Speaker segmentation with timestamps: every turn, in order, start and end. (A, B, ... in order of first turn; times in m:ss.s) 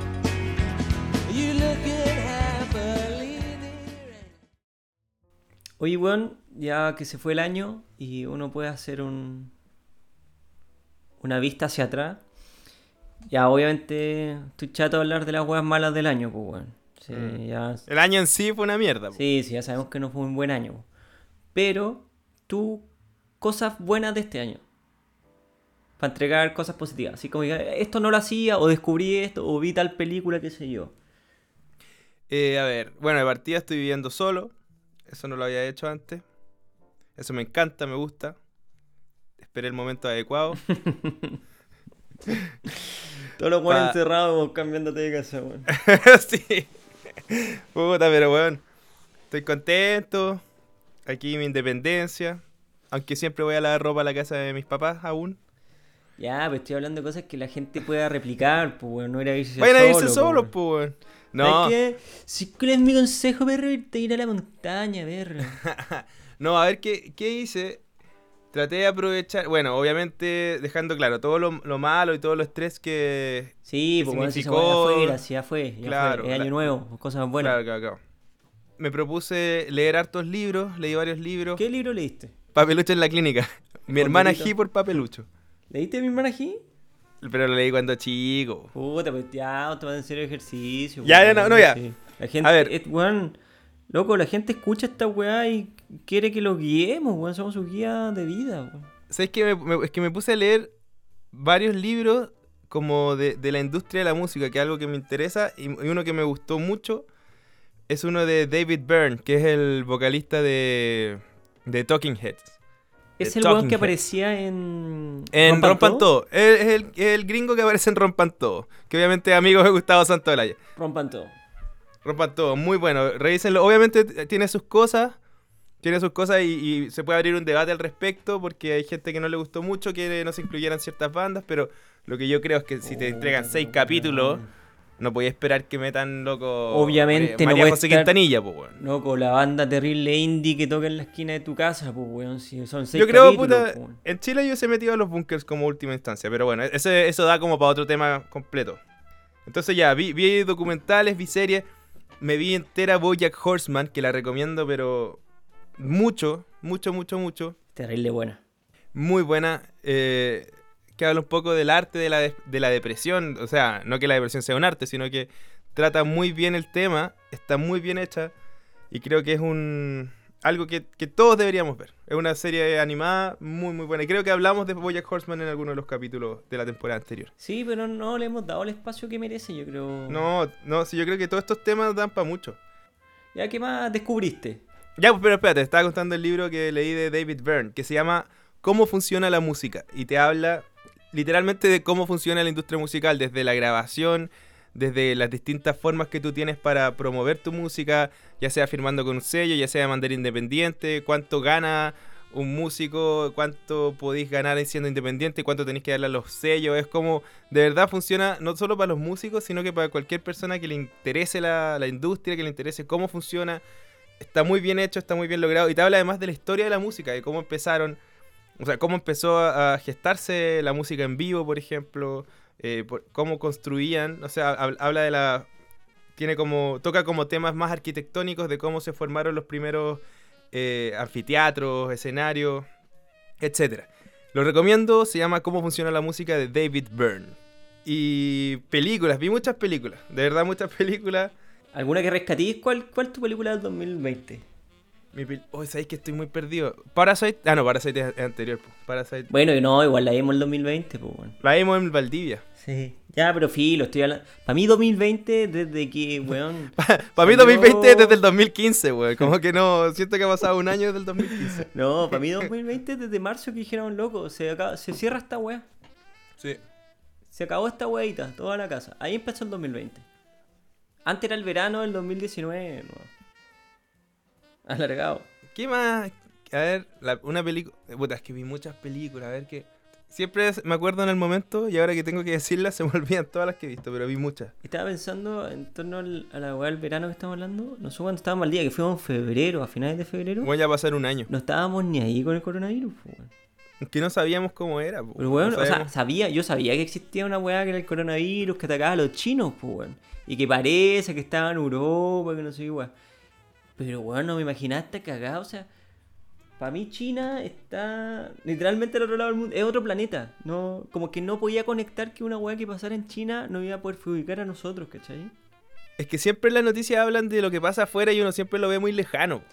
0:01.3-0:03.9 A
0:05.8-0:09.5 B
0:11.2-0:12.2 B
0:13.3-0:17.8 B
0:17.1-0:19.2 C
0:19.1-0:20.8 B
0:21.5-0:22.9 B
0:23.4-0:24.6 B
0:26.0-0:30.9 B
0:32.3-0:34.5 C
0:35.1-0:36.2 C
0:37.2-0:38.4 C
0:39.4-0:40.6 C
0:40.7-0:41.4 B
0:43.4-0:45.7 B
0:43.7-0:44.0 C
0:45.7-0:46.7 C
0:47.3-0:48.6 C
0:49.3-0:50.4 C
0:51.0-0:55.4 C
0:56.2-1:00.5 B
0:59.6-1:01.7 C
1:01.4-1:05.6 B
1:05.6-1:07.8 C
1:08.5-1:15.2 C
1:13.6-1:17.6 B
1:15.8-1:16.7 C
1:17.4-1:18.0 C
1:18.8-1:21.6 C
1:21.6-1:22.3 B
1:22.5-1:25.3 C
1:23.9-1:24.5 B
1:25.7-1:26.6 B
1:27.2-1:28.7 C
1:28.7-1:33.4 B
1:31.0-1:31.8 C
1:32.4-1:32.7 C
1:33.9-1:38.9 B
1:39.1-1:40.7 C
1:41.3-1:47.1 C
1:47.9-1:52.6 C
1:53.2-1:56.1 B
1:53.2-1:53.9 C
1:55.3-2:00.6 C
2:00.8-2:01.3 B
2:02.0-2:05.2 C
2:05.8-2:14.4 C
2:12.8-2:14.5 B
2:15.0-2:18.8 C
2:16.7-2:18.1 B
2:18.8-2:24.0 B
2:22.9-2:28.8 C
2:29.4-2:31.6 C
2:32.2-2:35.2 C
2:35.8-2:37.6 C
2:37.7-2:38.4 B
2:38.9-2:48.3 C
2:48.9-2:57.3 C
2:57.4-3:00.3 B
3:00.1-3:02.6 C
3:03.3-3:04.6 B
3:05.0-3:33.6 C
3:34.2-3:38.0 C
3:38.6-3:45.5 C
3:46.2-3:52.7 C
3:53.4-4:01.3 C
4:01.7-4:04.4 B
4:05.1-4:09.3 C
4:09.3-4:11.4 B
4:11.4-4:12.4 C
4:12.6-4:18.2 B
4:16.8-4:21.7 C
4:21.2-4:25.6 B
4:27.3-4:30.0 B
4:31.0-4:33.1 B
4:34.6-4:35.3 B
4:35.5-4:44.5 C
4:44.6-4:50.5 B
4:50.4-4:51.3 C
4:51.3-4:53.3 B
4:53.8-4:55.9 C
4:55.2-5:02.9 B
5:03.8-5:05.7 B
5:06.6-5:15.3 B
5:16.0-5:19.4 C